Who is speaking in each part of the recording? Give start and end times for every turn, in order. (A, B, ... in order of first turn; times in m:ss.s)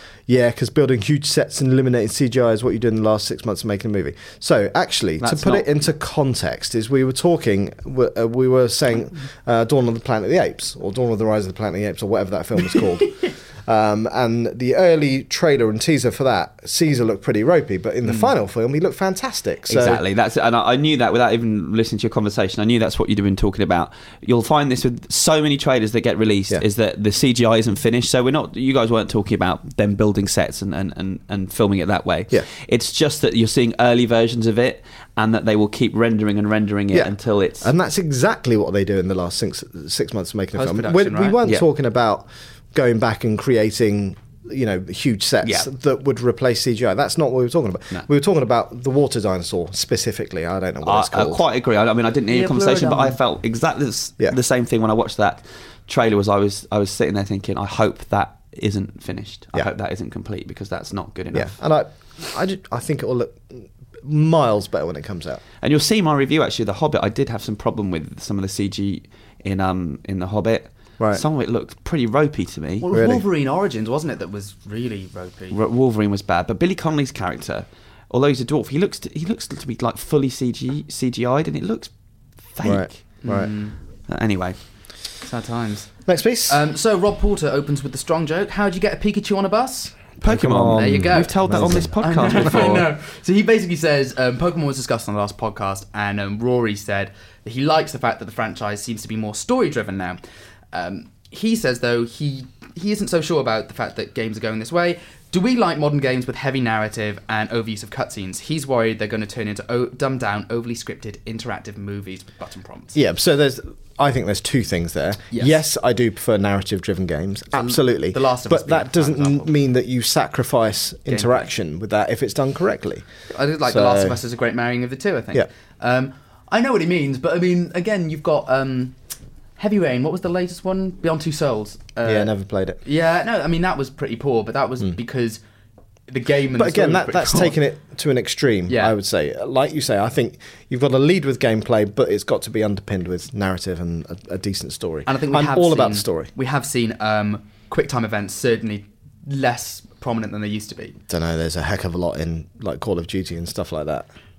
0:00.3-0:20.0 A
0:18.0-0:18.3 B
0:19.7-0:37.7 C
0:36.9-0:51.4 A
0:40.6-0:41.4 B
0:45.4-0:45.7 C
0:50.8-1:01.6 C
0:52.3-0:53.2 B
1:01.3-1:05.4 A
1:05.6-1:12.9 C
1:11.0-1:11.2 A
1:12.8-1:15.6 B
1:12.9-1:13.2 A
1:15.5-1:21.9 C
1:22.5-1:22.9 C
1:22.6-1:23.5 A
1:23.2-1:23.8 B
1:24.1-1:24.6 C
1:25.2-1:30.1 B
1:26.1-1:26.6 A
1:30.2-1:31.9 A
1:30.2-1:32.9 C
1:30.7-1:40.2 B
1:40.7-1:53.0 B
1:53.0-2:03.0 A
1:55.3-1:55.6 B
1:57.5-1:59.5 B
2:01.1-2:01.5 B
2:03.3-2:08.9 B
2:03.7-2:04.2 A
2:09.6-2:15.4 B
2:12.0-2:12.8 A
2:16.1-2:17.6 B
2:16.6-2:26.3 A
2:18.7-2:19.0 B
2:25.1-2:31.0 B
2:31.1-2:34.1 A